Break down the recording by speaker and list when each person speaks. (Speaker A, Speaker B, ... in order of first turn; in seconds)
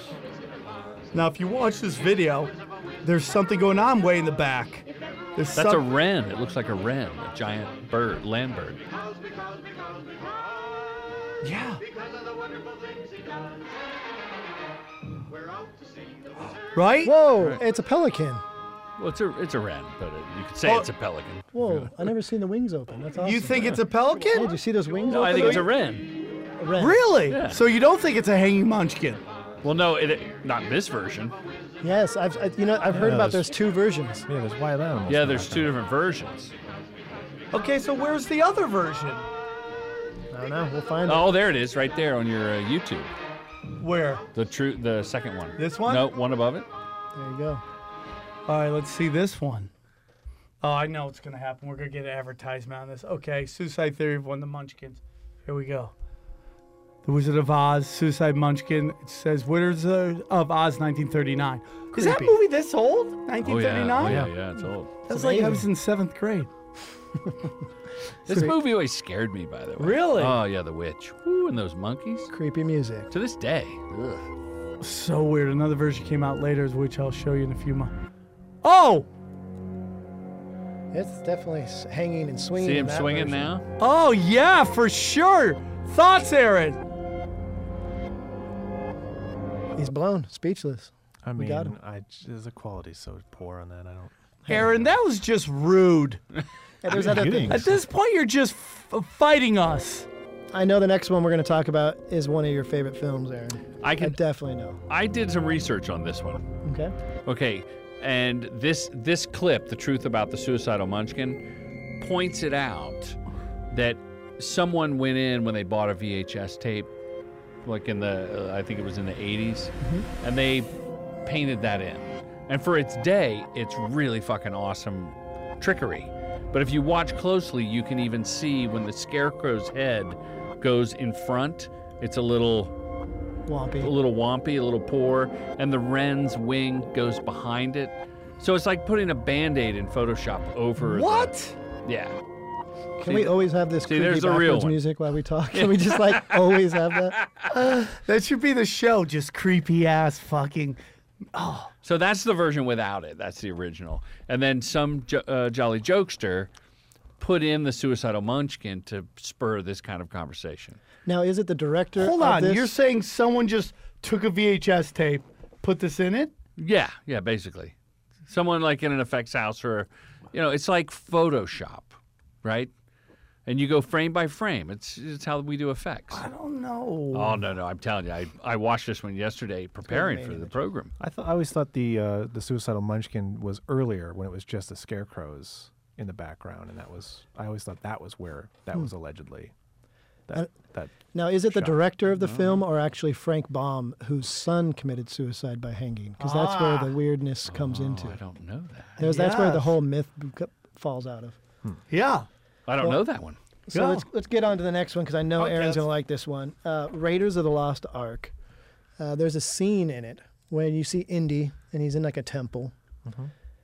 Speaker A: 1.1-2.5, 3.0-5.8, 11.4-11.8, 16.7-17.1, 23.2-24.5, 25.1-25.7, 26.8-29.2, 37.5-39.3, 43.8-44.2, 45.6-46.1, 48.5-49.7, 50.6-55.9, 57.0-64.2, 65.1-66.5, 69.8-70.4, 74.8-77.9, 78.6-79.1, 83.8-86.8, 94.5-96.2, 97.5-100.1, 140.8-141.6, 147.5-150.8, 151.3-151.7, 162.0-166.3, 176.1-177.4, 196.2-197.0, 199.0-199.7, 201.9-202.3, 203.7-204.1, 205.4-205.8
Speaker B: 5.6-8.8, 19.0-21.9, 25.1-26.1, 27.3-27.6, 29.6-31.4, 35.1-36.5, 41.1-43.1, 44.3-46.7, 63.4-65.0, 68.3-72.3, 73.1-74.3, 82.6-83.6, 103.8-104.2, 104.9-106.4, 107.3-111.4, 112.0-113.2, 113.7-116.9, 117.6-120.7, 121.3-132.7, 133.8-141.3, 141.8-142.2, 143.0-144.8, 145.5-147.5, 151.8-156.5, 157.2-160.8, 166.6-167.7, 168.3-172.7, 173.5-176.2, 177.1-180.9, 192.2-192.5, 197.5-199.0, 202.7-203.4
Speaker C: 17.0-18.4, 21.5-25.7, 26.6-27.0, 31.8-34.3, 40.3-41.3, 47.1-47.6, 61.9-62.4, 65.1-65.7, 72.3-73.1, 80.9-83.5, 89.8-91.7, 96.8-97.7, 100.5-104.8, 106.6-106.9, 133.5-133.9, 143.0-147.2, 161.1-162.7, 179.9-180.6, 191.1-198.2, 199.0-201.4, 203.7-208.3, 209.0-212.7
Speaker D: 32.9-33.6, 34.3-35.8, 64.0-64.4, 91.2-94.8, 96.9-97.8, 181.0-189.5, 190.3-191.9, 213.1-213.3